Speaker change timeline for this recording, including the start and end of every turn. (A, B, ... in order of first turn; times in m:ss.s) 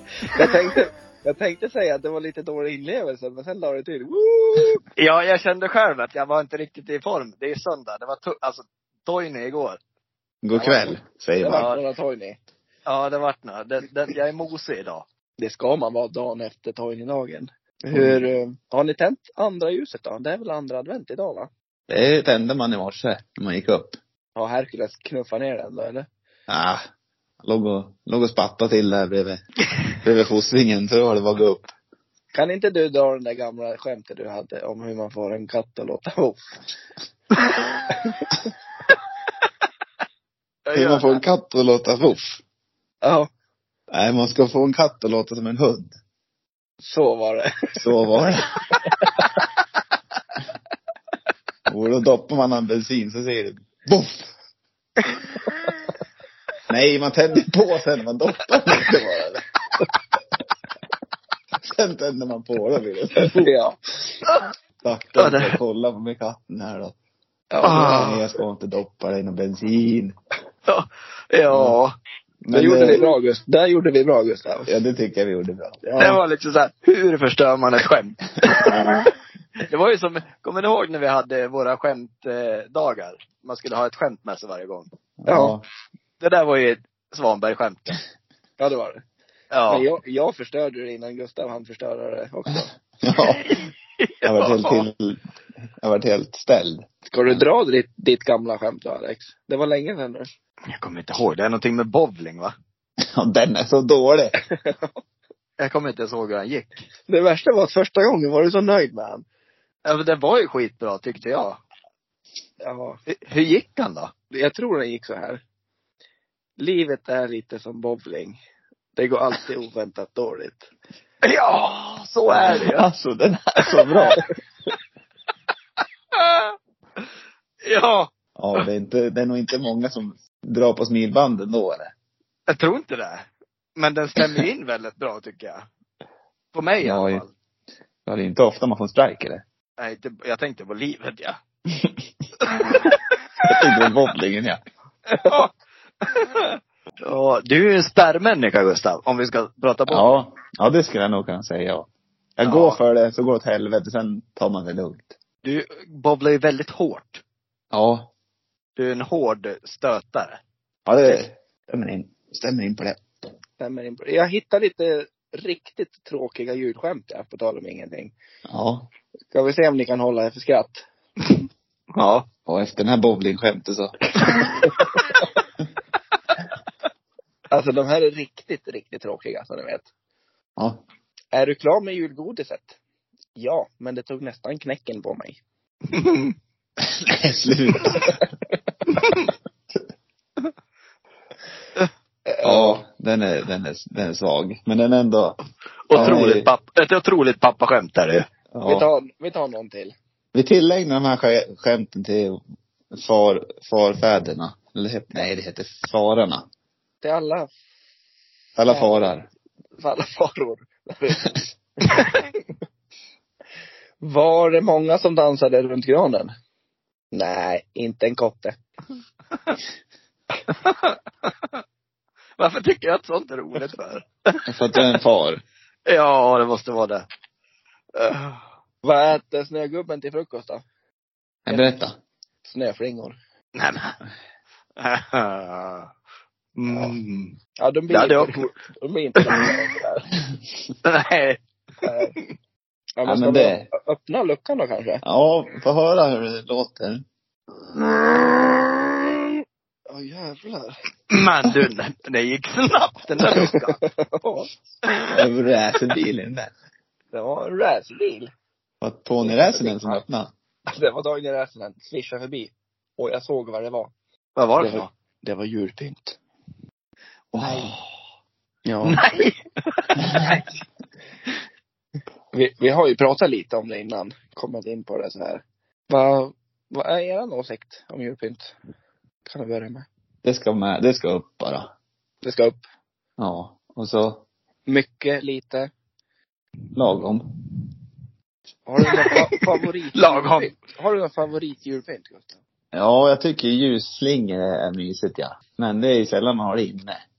0:00.3-0:04.8 A
0:05.0-0:09.8 B
0:10.4-0:11.7 C
0:10.5-0:11.0 B
0:11.4-0:12.4 A
0:11.5-0:11.8 B
0:12.9-0:15.0 B
0:15.4-0:21.5 A
0:17.9-0:18.2 C
0:21.9-0:24.0 C
0:24.4-0:26.1 A
0:26.5-0:26.8 C
0:27.4-0:29.4 C
0:30.0-0:31.7 C
0:32.3-0:36.6 A
0:37.9-0:38.4 A
0:40.7-0:41.2 B
0:40.7-0:42.4 C
0:43.0-0:43.3 A
0:43.9-0:46.0 C
0:46.8-0:47.8 A
0:47.8-0:48.6 C
0:49.0-0:49.3 A
0:51.7-0:54.3 C
0:56.7-0:59.4 C
1:01.6-1:03.5 C
1:03.2-1:03.8 A
1:04.8-1:07.0 C
1:05.2-1:05.6 B
1:07.5-1:08.1 A
1:07.6-1:08.2 B
1:07.6-1:10.1 C
1:10.7-1:11.9 B
1:11.5-1:11.8 C
1:12.4-1:13.1 C
1:12.5-1:14.8 A
1:14.7-1:15.9 C
1:15.8-1:16.2 A
1:16.0-1:19.1 B
1:19.7-1:24.9 B
1:25.2-1:25.6 C
1:25.3-1:25.6 A
1:26.2-1:28.0 B
1:28.6-1:29.0 A
1:29.5-1:29.9 B
1:29.7-1:32.7 A
1:33.0-1:33.6 C
1:33.2-1:34.9 B
1:34.2-1:35.2 C
1:35.8-1:37.4 C
1:37.1-1:40.3 A
1:40.7-1:42.5 B
1:43.1-1:44.4 C
1:44.4-1:45.0 A
1:45.6-1:46.8 B
1:47.1-1:49.2 A
1:49.8-1:51.6 B
1:52.6-1:53.0 A
1:53.1-1:54.1 B
1:54.3-1:55.4 A
1:56.6-1:58.4 A
1:59.0-2:00.7 A
2:01.2-2:02.8 B
2:02.4-2:04.2 C
2:03.9-2:04.2 B
2:06.1-2:06.6 B
2:07.7-2:08.1 B
2:08.4-2:11.9 C
2:12.5-2:15.6 B
2:16.5-2:17.3 B
2:16.8-2:17.2 C
2:18.1-2:19.4 C
2:19.8-2:21.4 B
2:22.4-2:23.0 B
2:23.5-2:24.6 C
2:25.2-2:25.5 B
2:26.0-2:30.2 B
2:29.9-2:35.1 C
2:32.4-2:32.8 B
2:35.4-2:37.2 B
2:37.7-2:38.1 C
2:38.8-2:40.4 B
2:40.9-2:43.1 C
2:43.6-2:48.1 A
2:48.5-2:48.9 C
2:49.3-2:50.8 A
2:52.0-2:52.3 B
2:52.5-2:54.6 C
2:54.7-2:55.2 A
2:57.5-2:59.9 A
3:01.3-3:02.8 A
3:03.4-3:05.4 A
3:05.9-3:06.3 B
3:07.0-3:08.2 C
3:08.9-3:09.3 B
3:12.3-3:12.8 A
3:12.4-3:15.4 C
3:15.9-3:18.3 B
3:15.9-3:16.5 C
3:18.5-3:18.9 C
3:18.6-3:19.9 A
3:20.3-3:22.4 C
3:22.9-3:26.4 C
3:27.0-3:27.5 A
3:28.6-3:29.3 C
3:28.7-3:29.1 A
3:29.8-3:31.3 A
3:32.0-3:32.2 B
3:34.0-3:36.3 A
3:37.1-3:38.6 A
3:40.6-3:41.3 B
3:42.4-3:44.9 B
3:44.5-3:45.4 C
3:45.9-3:47.1 B
3:48.0-3:48.4 B
3:48.8-3:50.6 A
3:51.5-3:52.0 C
3:51.5-3:51.8 A
3:52.4-3:53.2 A
3:53.6-3:54.0 B
3:54.8-3:55.9 B
3:56.6-3:57.4 B
3:56.7-3:57.0 C
3:57.6-4:00.1 A
3:57.9-3:58.4 B
3:59.2-3:59.6 B
4:00.8-4:01.4 B
4:01.8-4:02.1 A
4:03.0-4:05.0 A
4:03.0-4:03.7 C
4:05.0-4:07.0 C
4:09.9-4:10.7 A
4:11.1-4:13.7 B
4:13.3-4:14.5 A
4:15.1-4:16.5 C
4:17.1-4:18.3 A
4:18.8-4:20.3 C
4:19.2-4:20.0 A
4:20.7-4:23.9 A
4:24.4-4:24.9 B
4:24.6-4:26.2 A
4:27.3-4:27.8 C
4:27.4-4:27.7 A
4:28.6-4:29.0 A
4:28.8-4:30.4 B
4:32.3-4:38.6 A
4:39.3-4:39.9 A
4:40.2-4:41.7 C
4:42.2-4:42.6 A
4:43.2-4:44.2 C
4:44.7-4:45.7 A
4:46.8-4:47.3 C
4:48.7-4:52.4 A
4:50.0-4:50.5 B
4:52.7-4:57.0 C